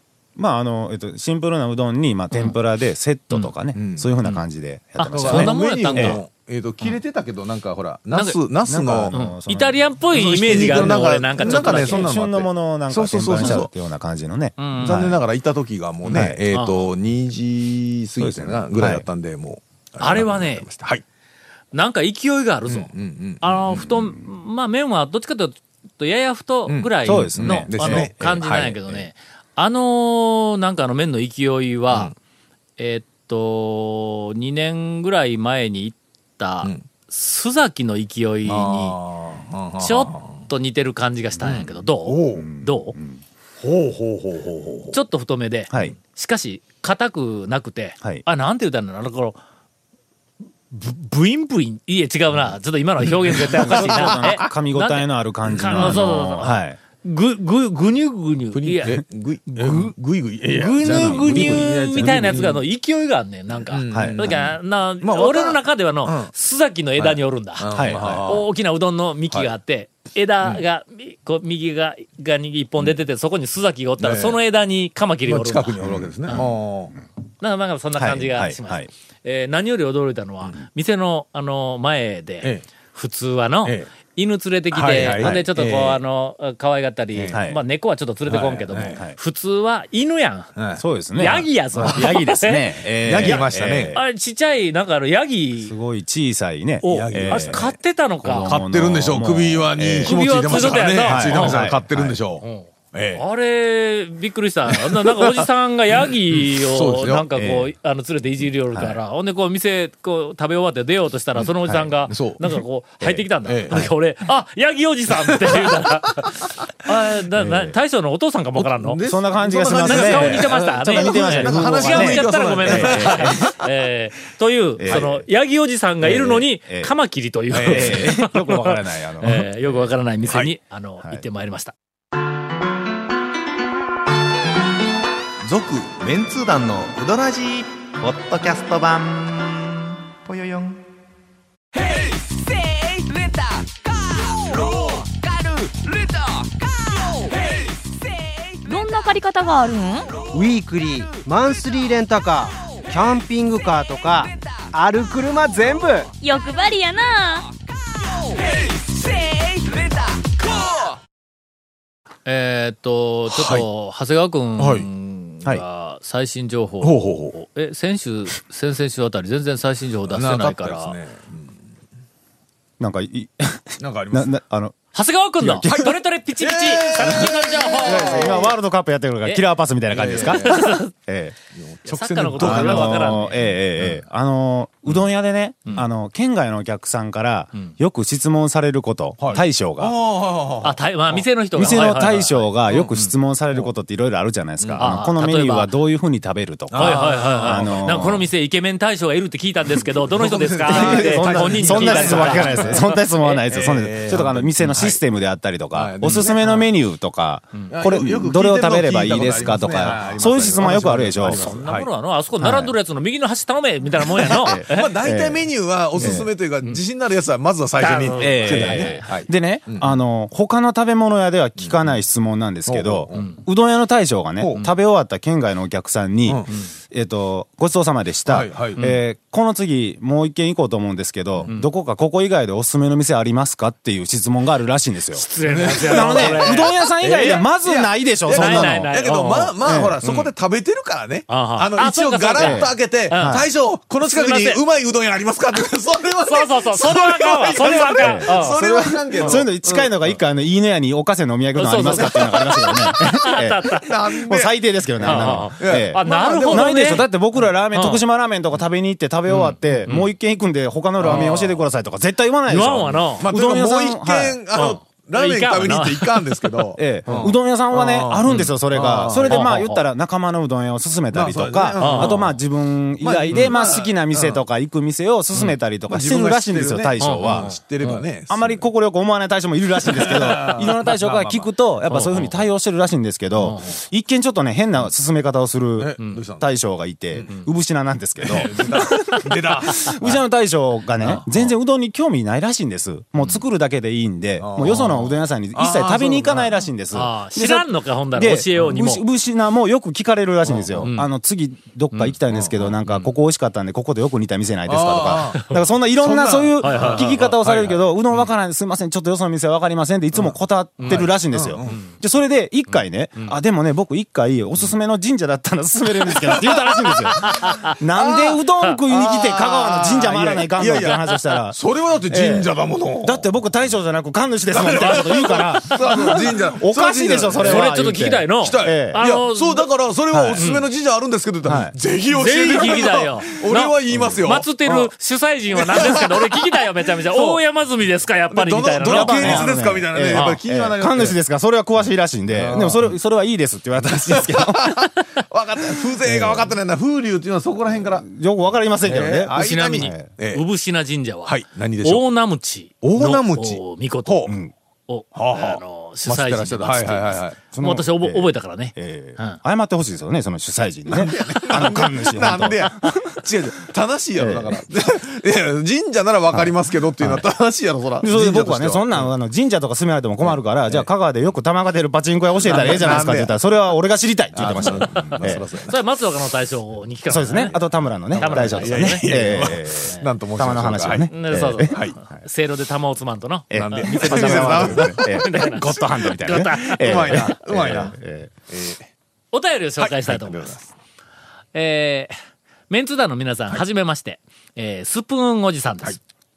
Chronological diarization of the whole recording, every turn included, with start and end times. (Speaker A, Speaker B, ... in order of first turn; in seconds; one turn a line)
Speaker A: 0.3-6.2
Speaker B: 3.7-4.1
Speaker C: 5.0-6.2
Speaker B: 5.1-9.1
Speaker A: 8.7-9.8
Speaker C: 9.1-12.1
Speaker B: 10.1-13.7
Speaker A: 10.4-15.2
Speaker C: 14.6-14.9
Speaker B: 14.8-21.0
Speaker A: 16.1-16.4
Speaker C: 16.5-16.9
Speaker A: 18.2-19.0
Speaker C: 20.0-20.6
Speaker C: 21.7-22.9
Speaker B: 22.7-23.8
Speaker C: 23.4-32.1
Speaker A: 23.8-24.1
Speaker B: 26.7-28.1
Speaker A: 27.0-29.1
Speaker C: 32.8-39.0
Speaker B: 38.4-40.5
Speaker C: 39.8-42.9
Speaker B: 41.5-42.5
Speaker A: 42.4-43.2
Speaker B: 43.6-45.0
Speaker C: 44.9-49.4
Speaker A: 45.7-46.0
Speaker C: 50.7-59.9
Speaker A: 53.3-56.8
Speaker B: 53.4-54.3
Speaker B: 55.6-56.0
Speaker B: 58.5-62.6
Speaker C: 60.5-76.4
Speaker A: 60.8-62.4
Speaker B: 63.6-66.3
Speaker A: 63.9-64.4
Speaker B: 67.0-68.4
Speaker A: 67.7-68.4
Speaker B: 74.0-74.4
Speaker B: 75.2-76.9
Speaker A: 75.9-76.4
Speaker C: 77.4-90.5
Speaker A: 78.0-78.9
Speaker B: 84.7-86.0
Speaker A: 85.2-85.5
Speaker B: 87.2-87.4
Speaker A: 87.3-87.6
Speaker B: 88.3-89.0
Speaker B: 90.5-90.8
Speaker A: 90.8-94.0
Speaker C: 91.1-93.4
Speaker B: 93.0-94.0
Speaker C: 93.9-95.7
Speaker A: 95.6-97.6
Speaker C: 96.8-98.5
Speaker B: 96.8-97.7
Speaker A: 98.2-102.2
Speaker B: 98.4-103.2
Speaker C: 100.0-101.6
Speaker C: 102.4-119.0
Speaker B: 104.7-105.5
Speaker B: 106.3-107.3
Speaker A: 107.3-107.7
Speaker A: 111.7-111.9
Speaker B: 112.1-112.6
Speaker A: 113.0-113.9
Speaker B: 113.4-113.8
Speaker A: 117.3-117.8
Speaker B: 118.6-123.6
Speaker A: 119.0-123.5
Speaker C: 119.8-131.7
Speaker A: 124.8-125.2
Speaker A: 126.0-126.9
Speaker B: 127.5-128.2
Speaker A: 127.7-129.5
Speaker D: 135.4-140.8
Speaker E: 148.7-150.1
Speaker F: 150.3-156.1
Speaker E: 156.2-157.5
Speaker C: 162.2-171.0
Speaker B: 163.3-163.7
Speaker B: 164.6-164.9
Speaker B: 166.8-167.3
Speaker B: 170.1-171.5
Speaker A: 172.8-174.8
Speaker B: 173.8-174.4
Speaker C: 174.9-178.5
Speaker A: 175.4-175.9
Speaker B: 176.4-178.5
Speaker A: 177.8-181.3
Speaker B: 179.9-180.7
Speaker C: 180.1-180.9
Speaker B: 181.5-184.0
Speaker C: 181.8-183.6
Speaker A: 182.4-189.9
Speaker B: 189.2-191.2
Speaker C: 190.6-193.1
Speaker A: 191.6-198.3
Speaker C: 194.8-195.7
Speaker B: 196.7-197.9
Speaker C: 196.7-203.4
Speaker B: 200.1-202.8
Speaker A: 200.7-211.4
Speaker B: 203.5-205.0
Speaker B: 205.7-206.7
Speaker C: 206.2-206.6
Speaker B: 207.7-211.9
Speaker C: 209.8-214.9
Speaker A: 212.4-212.7
Speaker B: 214.2-219.9
Speaker A: 214.4-215.4
Speaker A: 216.0-216.3
Speaker C: 216.0-216.8
Speaker C: 217.8-219.1
Speaker A: 218.2-238.9
Speaker B: 222.7-223.3
Speaker B: 224.4-224.7
Speaker B: 226.3-226.5
Speaker B: 228.3-228.8
Speaker C: 235.1-237.4
Speaker B: 235.4-250.1
Speaker C: 238.3-240.3
Speaker A: 239.6-240.0
Speaker C: 241.3-243.4
Speaker A: 242.4-243.4
Speaker C: 244.1-244.6
Speaker C: 246.2-248.6
Speaker A: 248.0-253.6
Speaker C: 249.2-249.4
Speaker C: 251.6-253.9
Speaker B: 253.8-257.0
Speaker A: 254.1-264.4
Speaker C: 255.0-257.1
Speaker C: 257.7-258.0
Speaker C: 259.3-260.1
Speaker B: 261.0-261.6
Speaker C: 261.0-261.4
Speaker C: 262.5-263.2
Speaker B: 263.2-269.4
Speaker C: 264.5-267.3
Speaker A: 266.8-277.5
Speaker C: 268.3-268.5
Speaker C: 269.3-269.8
Speaker B: 271.1-272.3
Speaker C: 271.8-272.2
Speaker B: 273.0-274.4
Speaker B: 275.9-278.6
Speaker C: 277.0-278.0
Speaker A: 278.3-322.5
Speaker B: 279.9-281.5
Speaker C: 281.9-282.4
Speaker C: 283.4-283.8
Speaker B: 285.8-286.5
Speaker B: 288.2-290.2
Speaker B: 291.0-291.5
Speaker B: 294.4-295.0
Speaker B: 295.5-296.5
Speaker C: 296.9-299.0
Speaker B: 300.4-300.9
Speaker C: 300.8-301.1
Speaker B: 302.3-302.7
Speaker B: 304.7-305.4
Speaker B: 306.0-307.8
Speaker C: 306.6-307.2
Speaker C: 310.8-311.9
Speaker B: 310.9-311.8
Speaker C: 316.3-317.7
Speaker B: 318.0-323.3
Speaker C: 320.8-321.2
Speaker A: 323.0-329.0
Speaker B: 324.5-327.7
Speaker C: 324.8-326.1
Speaker C: 327.4-329.7
Speaker B: 328.4-334.9
Speaker A: 330.1-330.4
Speaker C: 330.4-330.6
Speaker A: 331.4-331.7
Speaker C: 332.1-339.5
Speaker B: 335.5-336.6
Speaker B: 337.1-337.4
Speaker B: 338.3-341.2
Speaker A: 338.8-344.9
Speaker C: 340.1-340.4
Speaker B: 342.3-342.9
Speaker B: 344.0-348.1
Speaker A: 346.0-346.5
Speaker A: 347.8-350.1
Speaker B: 348.8-350.4
Speaker C: 349.3-354.4
Speaker B: 351.2-352.0
Speaker B: 352.8-354.3
Speaker A: 354.3-354.5
Speaker C: 354.9-359.4
Speaker B: 355.1-357.4
Speaker A: 357.5-363.2
Speaker B: 360.9-369.1
Speaker A: 364.2-364.6
Speaker A: 366.3-367.2
Speaker A: 368.0-375.4
Speaker B: 370.2-370.8
Speaker B: 372.4-373.3
Speaker C: 372.4-373.0
Speaker B: 374.3-375.8
Speaker C: 374.8-377.6
Speaker A: 377.1-381.8
Speaker C: 378.1-379.2
Speaker B: 378.1-381.9
Speaker C: 379.8-380.1
Speaker C: 381.1-387.8
Speaker A: 383.5-388.3
Speaker B: 383.5-388.0
Speaker B: 388.5-388.9
Speaker C: 389.3-390.6
Speaker B: 389.8-390.6
Speaker C: 391.5-392.1
Speaker C: 392.7-396.0